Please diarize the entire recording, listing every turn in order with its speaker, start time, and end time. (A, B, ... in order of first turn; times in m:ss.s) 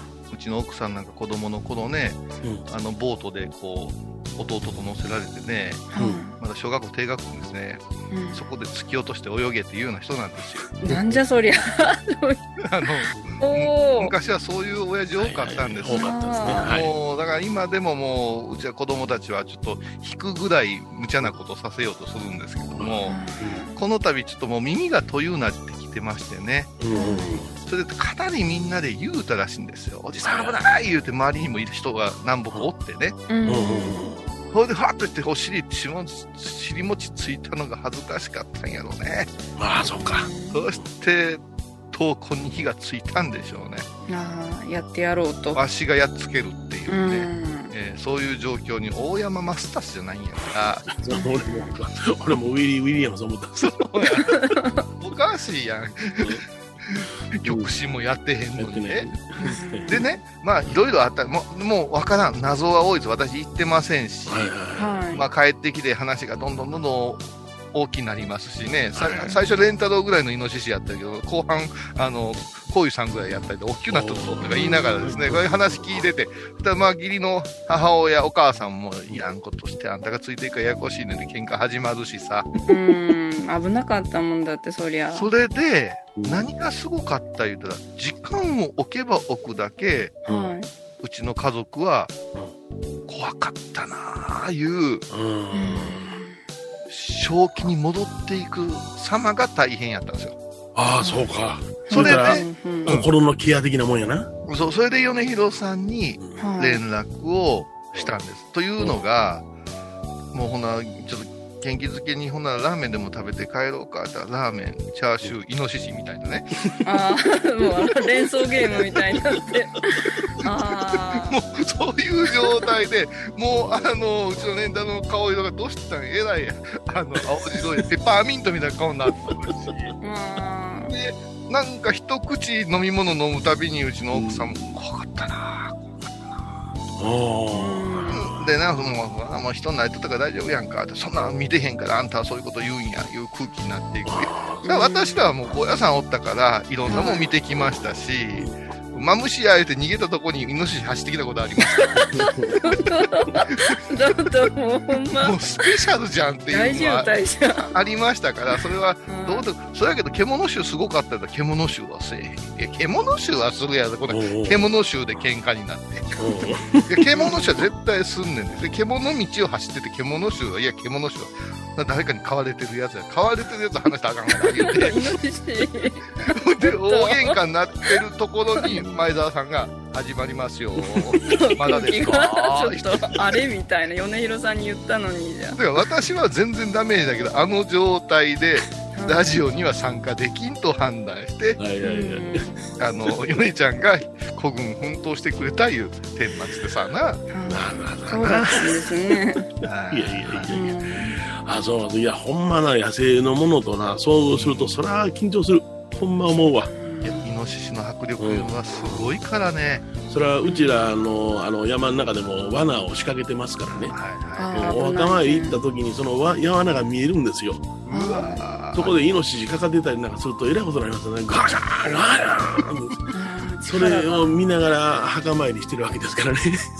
0:00.3-0:10.7 A
0:05.9-0:06.3 B
0:06.0-0:06.2 C
0:08.1-0:08.4 B
0:10.8-0:12.4 B
0:10.8-0:11.2 C
0:12.6-0:23.2 A
0:13.4-0:14.1 B
0:15.2-0:16.9 C
0:15.9-0:16.7 B
0:22.7-0:23.6 C
0:23.0-0:23.8 B
0:23.7-0:26.8 A
0:26.8-0:27.6 C
0:26.9-0:27.4 B
0:27.6-0:33.2 A
0:30.2-0:30.6 C
0:33.3-0:34.0 B
0:33.4-0:34.3 C
0:34.5-0:39.3 A
0:39.6-0:40.8 C
0:39.8-0:40.6 B
0:40.5-0:43.9 A
0:44.1-0:45.6 B
0:45.5-0:50.8 A
0:46.9-0:47.7 B
0:50.9-0:54.3 C
0:51.1-0:51.7 B
0:53.6-0:56.4 A
0:54.3-0:54.7 B
0:56.2-0:56.4 C
0:57.0-1:04.5 A
0:57.4-0:57.7 C
0:58.6-1:00.0 C
0:59.5-1:00.0 B
1:04.3-1:05.3 C
1:04.8-1:05.2 B
1:05.1-1:22.5 A
1:08.9-1:09.4 C
1:13.9-1:16.1 C
1:14.6-1:15.0 B
1:22.7-1:25.3 B
1:25.1-1:30.2 A
1:26.2-1:26.5 C
1:30.2-1:30.7 B
1:30.2-1:30.6 C
1:31.0-1:32.1 A
1:33.1-1:35.0 A
1:35.1-1:36.2 C
1:35.5-1:36.3 B
1:36.9-1:40.4 A
1:40.7-1:44.3 C
1:41.0-1:41.3 B
1:41.8-1:42.9 B
1:41.9-1:43.1 A
1:44.4-1:49.4 A
1:46.2-1:46.5 C
1:46.4-1:46.8 B
1:48.8-1:49.0 C
1:50.3-1:56.6 A
1:56.8-2:01.4 B
2:00.7-2:09.9 A
2:09.4-2:09.9 C
2:10.0-2:11.0 B
2:10.9-2:16.0 A
2:14.1-2:14.8 C
2:17.0-2:18.4 C
2:17.5-2:18.2 B
2:18.1-2:32.1 A
2:24.0-2:24.6 C
2:24.6-2:25.2 B
2:26.9-2:27.3 B
2:31.8-2:35.7 B
2:32.1-2:32.6 C
2:35.1-2:37.1 A
2:36.5-2:37.7 B
2:37.7-2:46.2 A
2:39.0-2:39.4 B
2:44.1-2:44.7 C
2:46.2-2:47.3 C
2:46.8-2:55.1 A
2:47.1-2:47.7 B
2:54.5-2:57.4 B
2:56.2-3:03.3 A
3:00.8-3:01.2 C
3:01.2-3:05.6 B
3:05.5-3:11.6 A
3:08.9-3:09.2 B
3:11.6-3:12.5 C
3:11.8-3:12.7 B
3:12.8-3:17.2 A
3:17.3-3:19.4 B
3:17.4-3:19.2 C
3:18.1-3:18.6 A
3:19.6-3:20.5 A
3:19.9-3:26.7 C
3:20.5-3:21.2 B
3:24.3-3:24.7 A
3:26.6-3:27.2 B
3:27.0-3:30.2 A
3:28.2-3:29.2 C
3:30.1-3:34.0 C
3:30.4-3:30.8 B
3:33.8-3:34.8 A
3:34.4-3:35.6 B
3:34.5-3:37.8 C
3:37.8-3:39.0 A
3:37.9-3:38.4 B
3:38.7-3:43.1 C
3:43.1-3:44.4 B
3:43.6-3:46.6 C